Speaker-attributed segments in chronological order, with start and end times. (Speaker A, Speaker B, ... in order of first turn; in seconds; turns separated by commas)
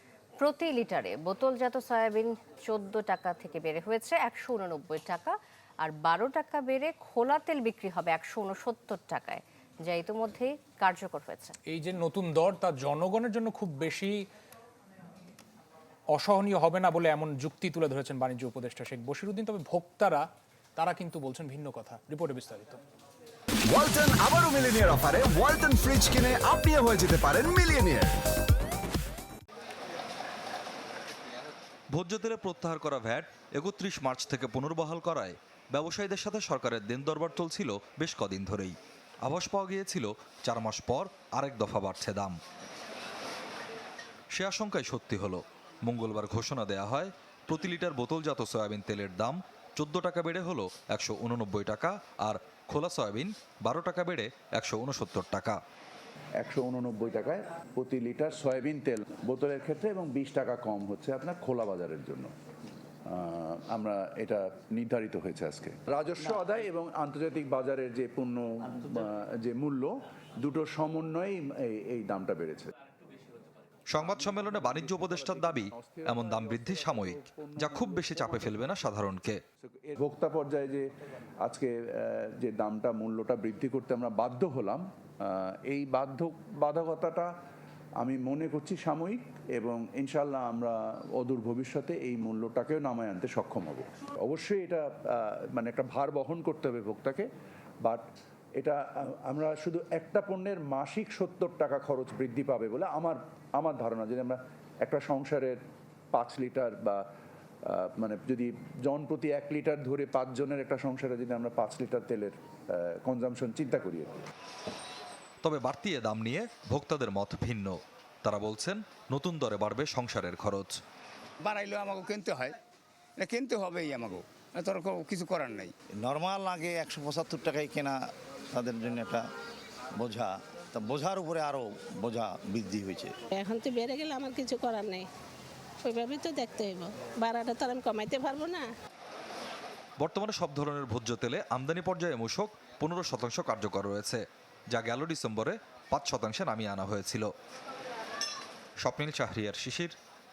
Speaker A: 0.4-11.6, Speaker B: 11.7-14.3, Speaker B: 16.1-22.8, Speaker C: 23.7-28.2, Speaker D: 31.9-42.4, Speaker D: 44.4-55.6, Speaker E: 56.4-62.3, Speaker E: 63.1-72.7, Speaker D: 73.9-79.4, Speaker E: 74.1-78.8, Speaker E: 79.6-80.8, Speaker E: 81.4-87.3, Speaker E: 88.0-97.3, Speaker E: 98.6-105.6, Speaker E: 106.1-107.0, Speaker E: 107.7-114.1, Speaker D: 115.4-120.8, Speaker F: 121.4-122.6, Speaker F: 123.2-125.7, Speaker G: 126.0-128.0, Speaker G: 128.5-129.2, Speaker G: 130.0-133.2, Speaker H: 133.3-135.1, Speaker H: 135.8-138.7, Speaker D: 140.0-147.3, Speaker D: 148.8-149.9